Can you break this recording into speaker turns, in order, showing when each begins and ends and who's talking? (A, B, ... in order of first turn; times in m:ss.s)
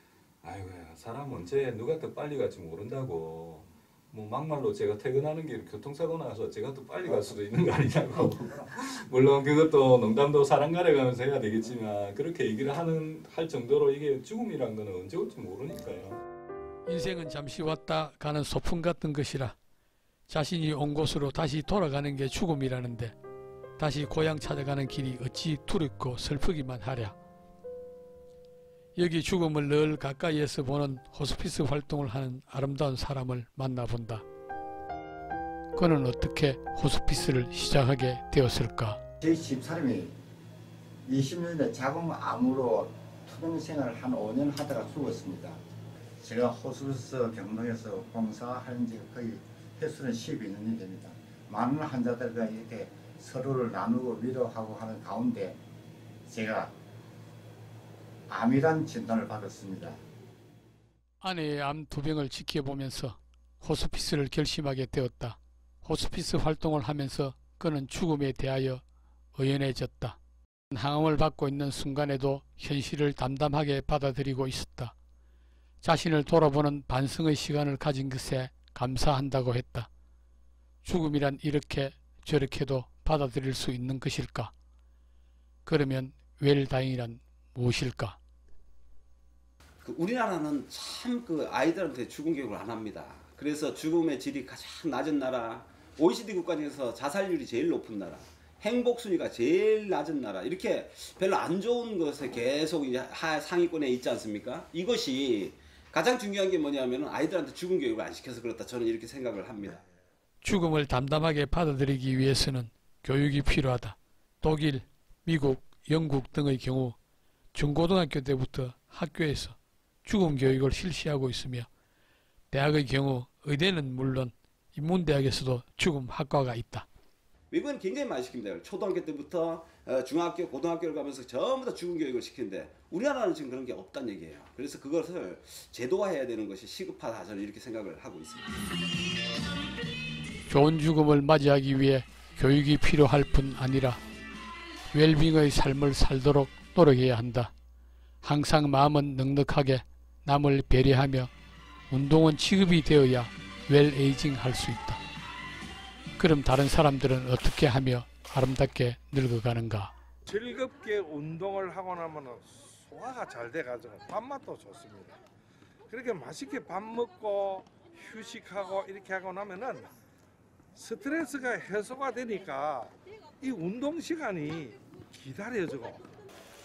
0:00.4-0:16.2 A
0:16.9-0:19.6 B
0:20.3-0:23.2 B
0:23.8-0:27.2 B
0:29.0-0:34.2 B
0:35.8-0:39.0 B
0:39.2-0:40.1 C
0:41.1-0:45.6 C
0:46.2-0:55.6 C
0:56.3-0:56.7 C
0:58.3-1:00.0 C
1:01.2-1:08.8 B
1:09.4-1:10.2 B
1:10.7-1:14.9 B
1:15.8-1:19.9 B
1:20.8-1:24.5 B
1:25.6-1:28.2 B
1:29.8-1:49.8 D
1:50.4-1:57.0 B
1:57.5-2:01.7 B
2:02.5-2:06.9 B
2:07.5-2:18.6 D
2:20.5-2:24.0 B
2:24.9-2:27.5 B
2:28.2-2:31.3 B
2:31.9-2:35.0 B
2:36.2-2:39.9 B
2:40.3-2:45.1 E
2:45.9-2:49.9 E
2:50.8-2:52.9 E
2:53.4-2:56.0 E